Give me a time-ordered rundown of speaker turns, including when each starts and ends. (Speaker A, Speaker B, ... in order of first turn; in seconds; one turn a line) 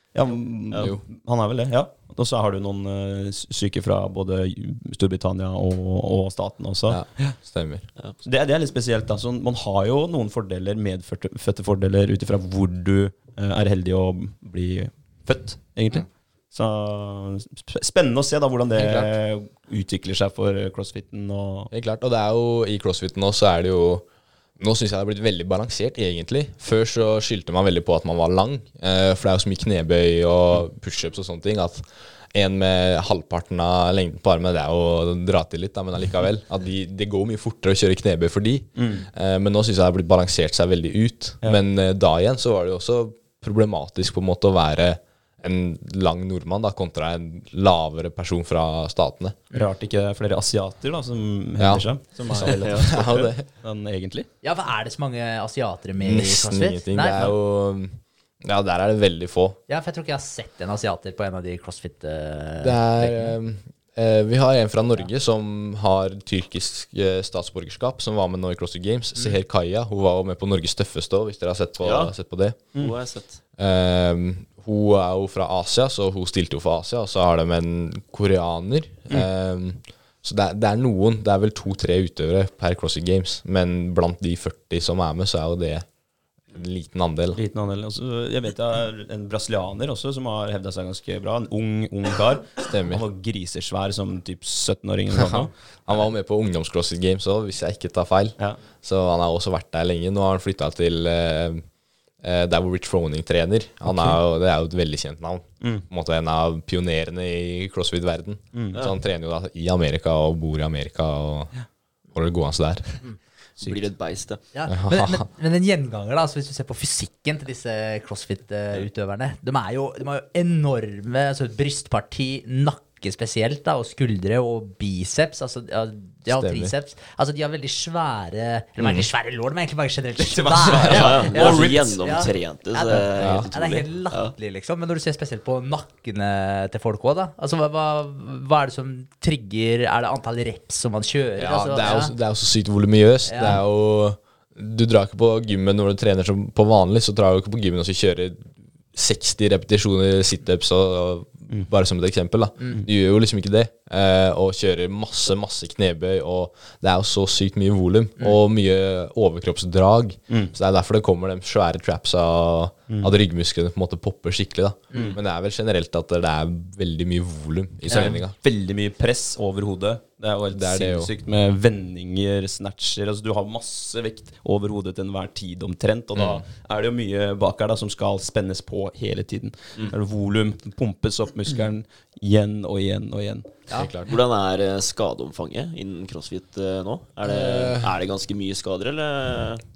Speaker A: 0.1-7.3
Speaker B: 6.9-7.9
Speaker A: 8.2-21.7
Speaker B: 18.7-19.1
Speaker B: 21.7-24.1
Speaker B: 24.6-49.4
Speaker A: 38.8-39.1
Speaker A: 49.5-54.3
Speaker B: 51.6-53.5
Speaker C: 52.5-52.9
Speaker D: 54.4-57.3
Speaker B: 56.0-59.6
Speaker D: 59.7-63.4
Speaker B: 62.6-72.6
Speaker C: 71.8-72.1
Speaker C: 72.8-73.4
Speaker B: 73.6-85.8
Speaker B: 86.5-87.4
Speaker A: 87.3-95.5
Speaker B: 92.6-93.0
Speaker B: 95.1-101.6
Speaker B: 102.2-111.5
Speaker A: 103.9-104.2
Speaker A: 108.5-108.8
Speaker B: 112.1-113.0
Speaker C: 113.6-114.4
Speaker D: 114.5-142.1
Speaker B: 114.7-115.2
Speaker B: 126.3-126.7
Speaker B: 128.8-129.1
Speaker A: 130.2-132.0
Speaker C: 130.8-134.3
Speaker B: 133.2-133.5
Speaker B: 141.4-168.3
Speaker D: 143.3-143.6
Speaker D: 167.9-168.2
Speaker A: 167.9-183.7
Speaker B: 170.5-171.1
Speaker B: 176.1-176.4
Speaker B: 183.7-184.1
Speaker C: 184.1-189.6
Speaker B: 187.2-187.9